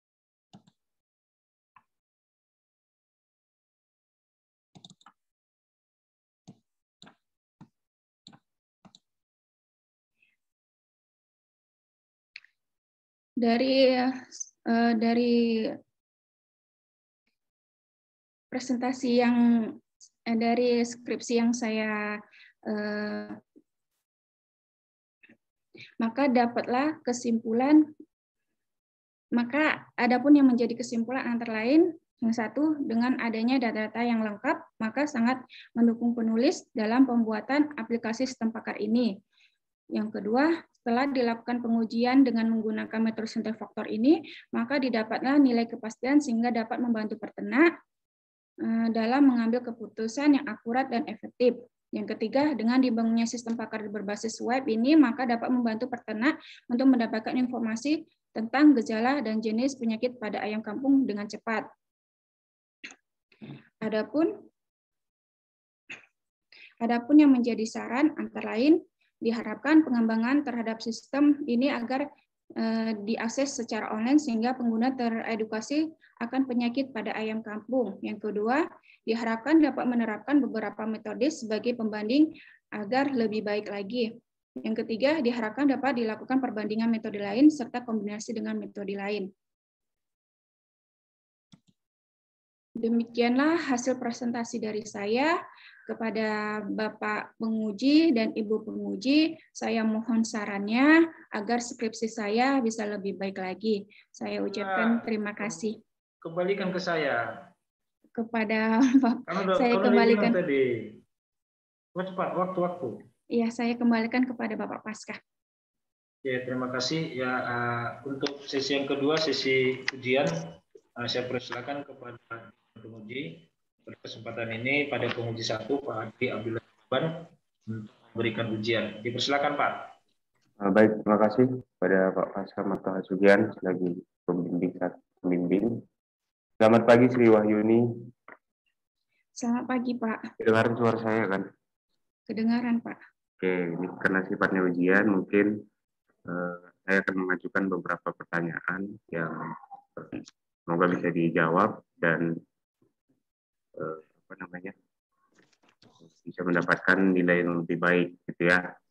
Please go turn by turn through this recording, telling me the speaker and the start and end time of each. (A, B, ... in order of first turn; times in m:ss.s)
0:13.4-0:15.8 A
0:18.5-0:23.4 A
0:26.0-0:27.8 A
0:29.3-0:39.2 A
0:39.9-0:47.7 A
0:48.6-1:01.7 A
1:03.8-1:04.4 A
1:06.8-1:29.3 A
1:32.8-1:35.4 A
1:35.9-1:45.8 A
1:44.5-1:45.6 B
1:46.2-1:47.5 B
1:48.2-1:50.4 A
1:49.3-1:51.0 B
1:51.9-1:53.0 B
1:53.3-1:55.2 A
1:56.2-2:09.9 B
2:10.6-2:15.8 C
2:16.6-2:17.8 C
2:19.4-2:20.2 A
2:20.4-2:21.4 C
2:22.3-2:23.0 A
2:23.4-2:25.5 C
2:26.3-2:30.1 C
2:30.7-2:32.3 C
2:33.8-2:34.7 C
2:36.1-2:38.6 C